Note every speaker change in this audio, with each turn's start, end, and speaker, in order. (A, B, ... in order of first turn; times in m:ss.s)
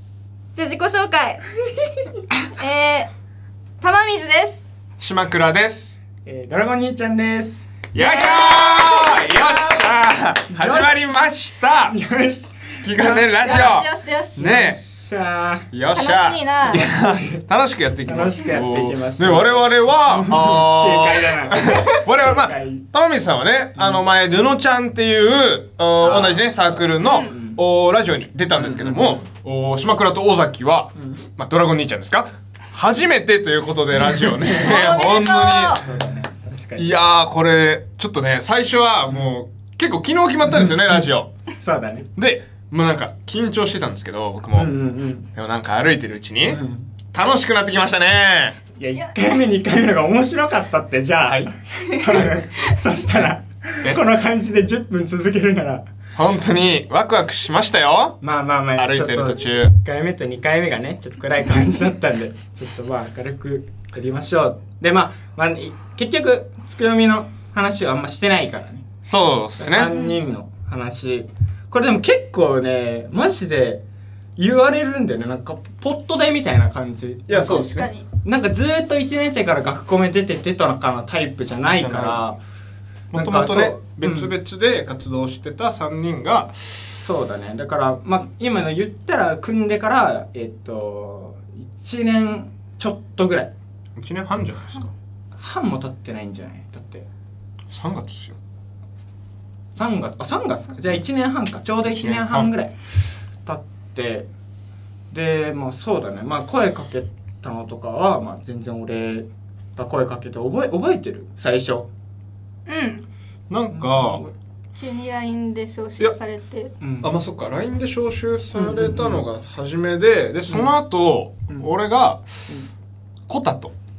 0:00.6-0:01.4 A
0:02.6-0:03.1 A
0:03.8-0:04.6 A
0:05.0-0:06.0 B
0:06.2-0:07.9 C
0:07.9-0:12.0 B
0:08.0-0:09.4 A
0:10.5-0:11.2 C
0:11.9-0:13.7 C
0:12.8-0:14.8 B
0:13.4-0:14.7 A
0:14.4-0:15.7 C
0:15.7-0:35.8 B
0:15.9-0:16.9 A
0:16.7-0:17.4 C
0:18.1-0:19.5 C
0:20.1-0:22.8 C
0:26.0-0:26.4 C
0:27.0-0:27.3 A
0:27.3-0:27.6 C
0:28.6-0:29.2 C
0:34.5-0:35.8 A
0:35.8-0:36.9 C
0:36.8-0:41.3 B
0:41.6-0:42.1 C
0:42.2-0:44.8 B
0:44.6-0:45.3 C
0:45.3-0:48.6 B
0:46.5-0:46.9 C
0:48.8-0:55.8 C
0:52.1-0:52.3 B
0:56.2-0:58.2 B
0:58.2-1:08.9 C
0:58.8-0:59.8 B
1:09.0-1:10.0 B
1:09.6-1:13.8 C
1:14.4-1:22.4 C
1:17.3-1:17.9 B
1:17.6-1:18.1 A
1:21.7-1:22.3 B
1:23.1-1:27.1 B
1:23.1-1:24.3 C
1:27.0-1:33.5 C
1:34.0-1:34.9 B
1:35.4-1:37.0 C
1:37.7-1:38.4 B
1:39.8-1:42.8 C
1:41.8-1:42.5 B
1:43.4-1:44.3 C
1:45.1-1:51.9 C
1:52.7-1:53.1 A
1:53.5-1:54.2 B
1:53.7-1:54.3 C
1:54.8-1:56.7 A
1:56.8-1:57.1 C
1:57.0-2:02.6 B
1:58.5-1:59.2 C
2:03.3-2:03.8 B